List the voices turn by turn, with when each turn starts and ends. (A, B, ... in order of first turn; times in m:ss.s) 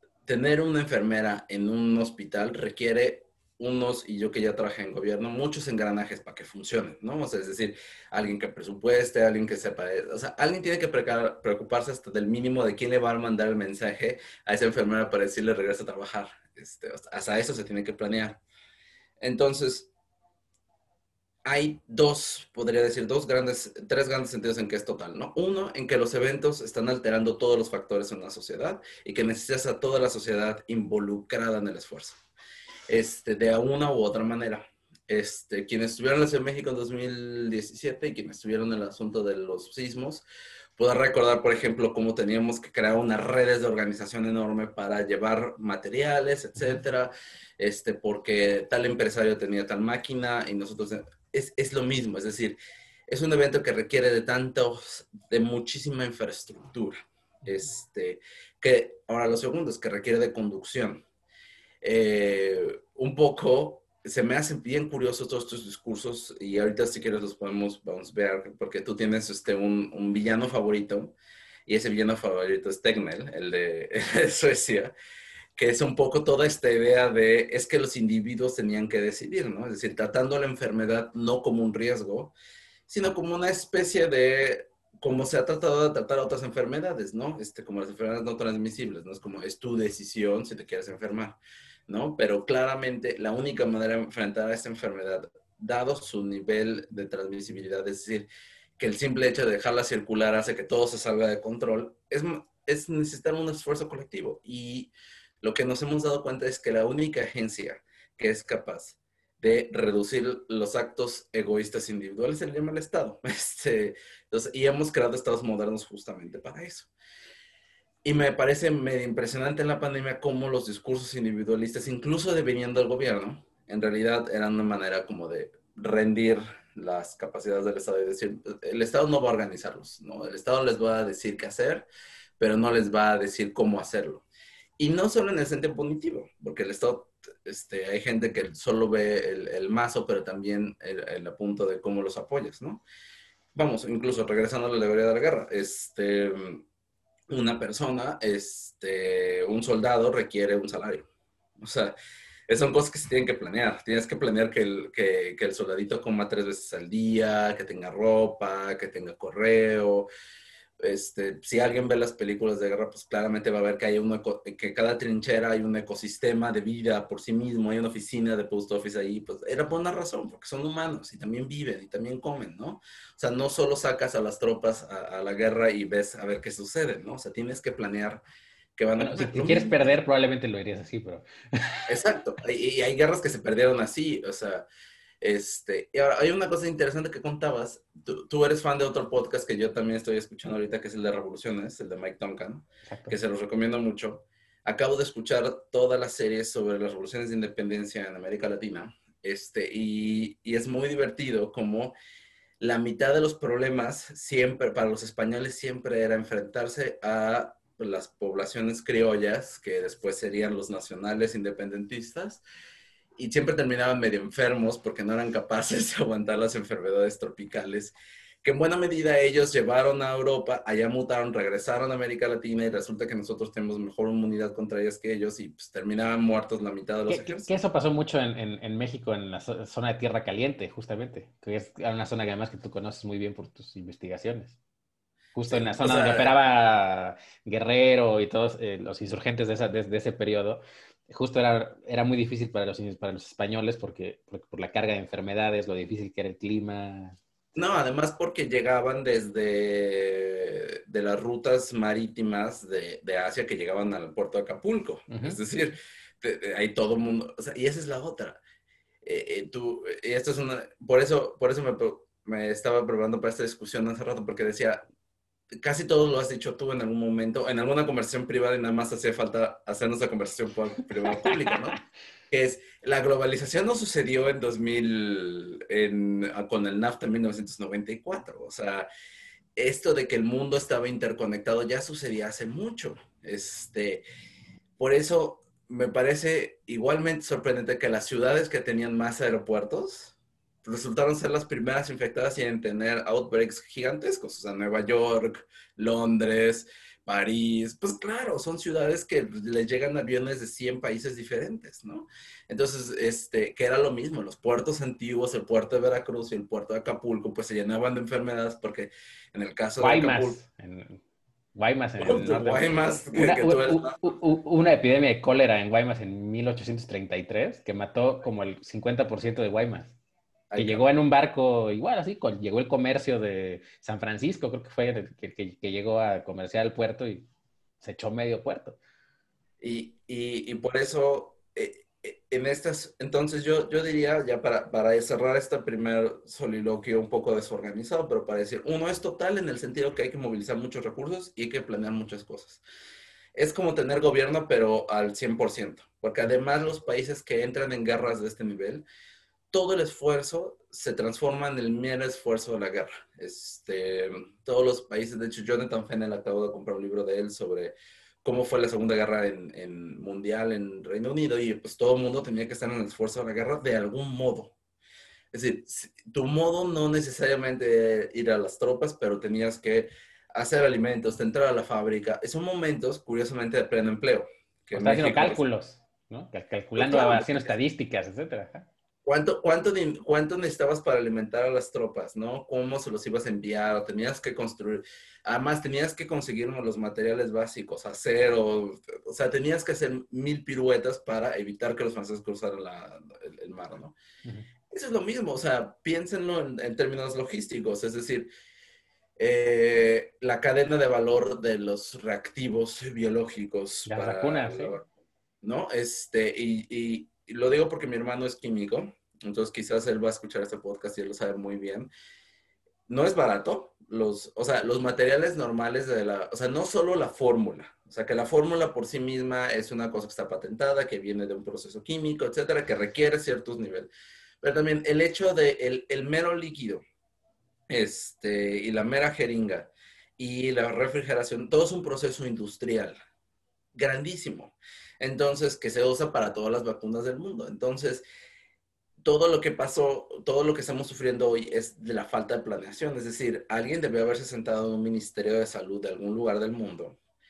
0:00.2-0:18.4 A
0:19.2-0:19.9 A
0:21.4-0:32.2 A
0:32.9-0:40.2 A
0:40.8-0:52.6 A
0:53.1-1:01.0 A
1:01.8-1:11.1 A
1:11.6-1:14.9 A
1:15.6-1:22.4 A
1:22.9-1:38.3 A
1:38.8-1:56.9 A
1:58.0-2:11.9 A
2:12.4-2:14.2 A
2:14.8-2:22.8 A
2:23.5-2:26.6 A
2:27.3-2:31.1 A
2:31.6-2:31.9 A
2:32.5-2:40.1 A
2:40.8-2:58.2 A
2:58.8-3:00.0 A
2:59.0-3:01.9 B
3:01.9-3:04.6 A
3:05.2-3:22.0 A
3:12.9-3:13.2 B
3:22.6-3:32.4 A
3:33.2-3:47.6 A
3:47.1-3:54.6 B
3:55.4-4:07.2 B
3:55.5-3:56.3 A
4:07.6-4:18.4 A
4:15.1-4:15.4 B
4:19.0-4:24.8 A
4:25.6-4:31.8 A
4:31.0-4:31.7 B
4:32.3-4:38.9 A
4:39.6-4:44.0 A
4:44.8-5:10.4 A
5:09.8-5:11.0 B
5:11.6-5:19.9 B
5:12.0-5:14.0 A
5:20.5-5:20.8 A
5:20.6-5:27.3 B
5:27.8-5:28.8 B
5:29.6-5:42.6 A
5:43.3-5:48.9 A
5:49.5-6:04.5 A
6:05.3-6:15.4 A
6:14.7-6:18.7 B
6:16.8-6:17.5 A
6:19.0-6:34.0 A
6:34.7-6:38.3 A
6:39.2-6:44.9 A
6:43.9-6:44.8 B
6:45.4-6:51.9 A
6:52.9-7:03.9 A
7:04.4-7:06.8 A
7:07.7-7:13.0 A
7:13.7-7:18.0 A
7:19.0-7:27.0 A